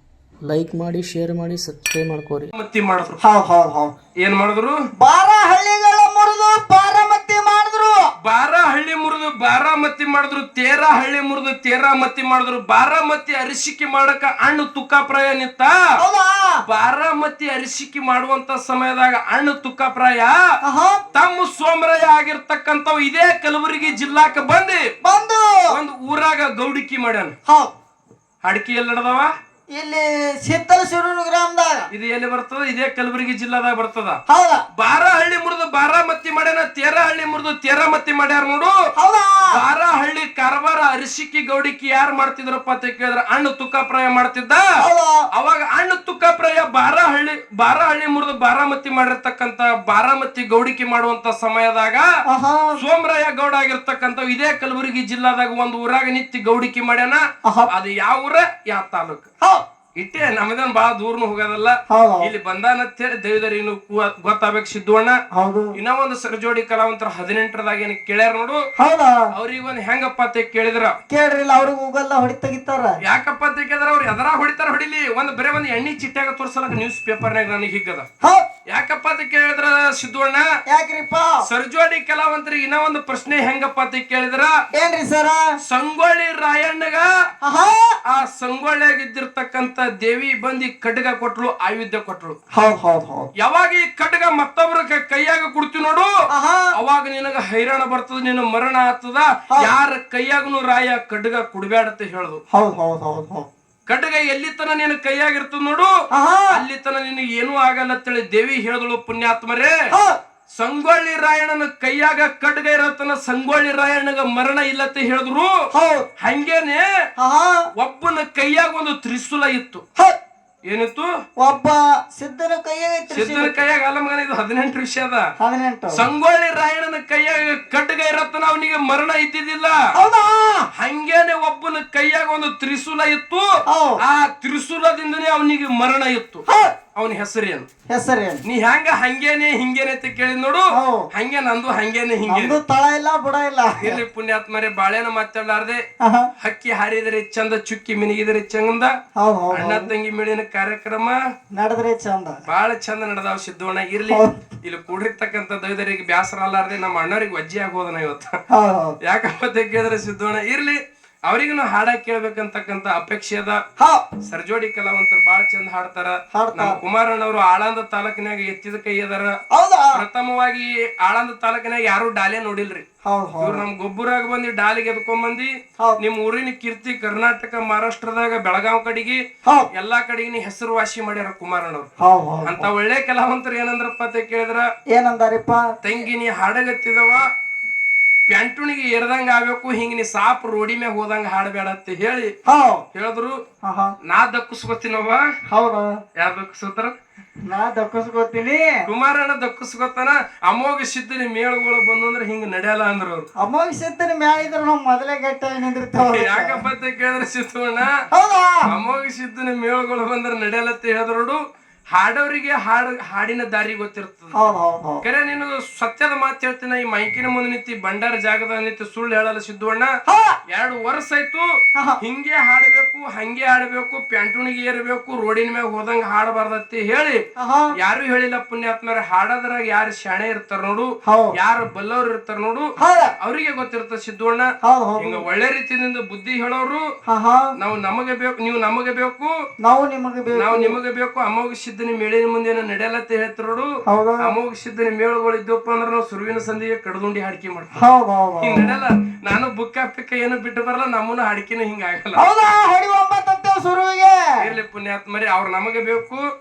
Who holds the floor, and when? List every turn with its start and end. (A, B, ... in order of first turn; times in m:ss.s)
0:00.4-0:02.5 A
0:02.5-0:03.2 B
0:03.2-0:03.9 C
0:04.2-0:04.8 B
0:05.0-0:08.1 C
0:08.2-0:15.7 B
0:16.0-0:16.6 C
0:16.6-0:20.4 B
0:20.6-0:21.0 C
0:21.1-0:24.9 B
0:25.0-0:25.8 C
0:25.7-0:27.3 B
0:27.4-0:27.7 C
0:28.4-0:29.3 B
0:29.7-0:31.9 C
0:31.9-0:34.2 B
0:34.3-0:34.6 C
0:34.7-0:38.7 B
0:39.0-0:39.6 C
0:39.5-0:44.6 B
0:44.8-0:45.2 C
0:45.3-0:52.0 B
0:52.3-0:52.8 C
0:52.8-0:59.3 B
0:57.4-0:57.7 C
1:00.0-1:05.2 B
1:01.9-1:02.3 C
1:05.3-1:05.7 C
1:05.7-1:08.6 B
1:08.8-1:09.3 C
1:09.3-1:11.0 B
1:11.1-1:13.0 C
1:13.0-1:18.0 B
1:18.7-1:20.4 B
1:20.7-1:21.5 C
1:21.4-1:24.5 B
1:24.7-1:25.4 C
1:25.6-1:27.1 B
1:27.4-1:28.0 C
1:28.1-1:32.4 B
1:32.5-1:33.3 C
1:33.4-1:36.1 B
1:36.3-1:36.7 C
1:36.7-1:42.4 B
1:42.5-1:43.5 C
1:43.9-1:45.9 B
1:46.1-1:46.6 C
1:46.5-1:49.8 B
1:49.9-1:50.2 C
1:50.6-1:55.6 B
1:55.7-1:56.1 C
1:56.2-1:56.9 B
1:57.2-1:57.6 C
1:57.8-1:59.8 B
2:00.7-2:01.1 B
2:01.4-2:03.6 C
2:03.1-2:05.2 B
2:05.4-2:06.0 C
2:05.9-2:09.8 B
2:09.9-2:10.6 C
2:10.8-2:13.5 B
2:13.7-2:14.0 C
2:14.0-2:16.4 B
2:16.5-2:16.7 C
2:16.9-2:17.6 B
2:17.9-2:18.4 C
2:18.4-2:22.6 B
2:20.7-2:21.1 C
2:22.2-2:24.0 C
2:23.8-2:25.8 B
2:26.0-2:26.3 C
2:26.4-2:28.9 B
2:29.2-2:29.9 C
2:29.5-2:31.1 B
2:31.5-2:32.4 C
2:32.5-2:38.3 B
2:34.1-2:34.3 C
2:38.5-2:39.0 C
2:39.0-2:43.6 B
2:43.8-2:44.0 C
2:44.2-2:49.4 B
2:46.3-2:46.8 C
2:49.5-2:50.0 C
2:49.9-2:52.8 B
2:53.0-2:53.6 C
2:53.4-2:59.2 B
2:59.7-3:01.9 B
3:02.0-3:02.7 C
3:02.4-3:04.6 B
3:04.9-3:05.6 C
3:05.8-3:07.2 B
3:08.3-3:12.3 B
3:12.4-3:12.8 C
3:12.9-3:13.4 B
3:13.6-3:13.9 C
3:14.0-3:15.2 B
3:15.5-3:15.9 C
3:16.2-3:16.9 B
3:17.5-3:18.8 C
3:18.8-3:23.3 B
3:23.4-3:26.6 C
3:26.0-3:27.9 B
3:28.1-3:28.7 C
3:28.7-3:31.4 B
3:31.9-3:34.4 B
3:34.3-3:35.0 C
3:35.0-3:39.9 B
3:40.1-3:40.4 C
3:40.5-3:41.5 B
3:42.0-3:47.2 B
3:47.4-3:47.7 C
3:47.8-3:52.7 B
3:51.0-3:51.3 C
3:52.8-3:53.1 C
3:53.2-3:54.5 B
3:54.6-3:55.2 C
3:55.0-3:56.8 B
3:57.0-3:57.5 C
3:57.6-3:59.3 B
3:59.6-4:00.8 C
4:00.4-4:03.7 B
4:03.8-4:04.3 C
4:04.2-4:07.8 B
4:07.8-4:08.8 C
4:08.4-4:12.2 B
4:12.1-4:14.5 C
4:14.4-4:16.2 B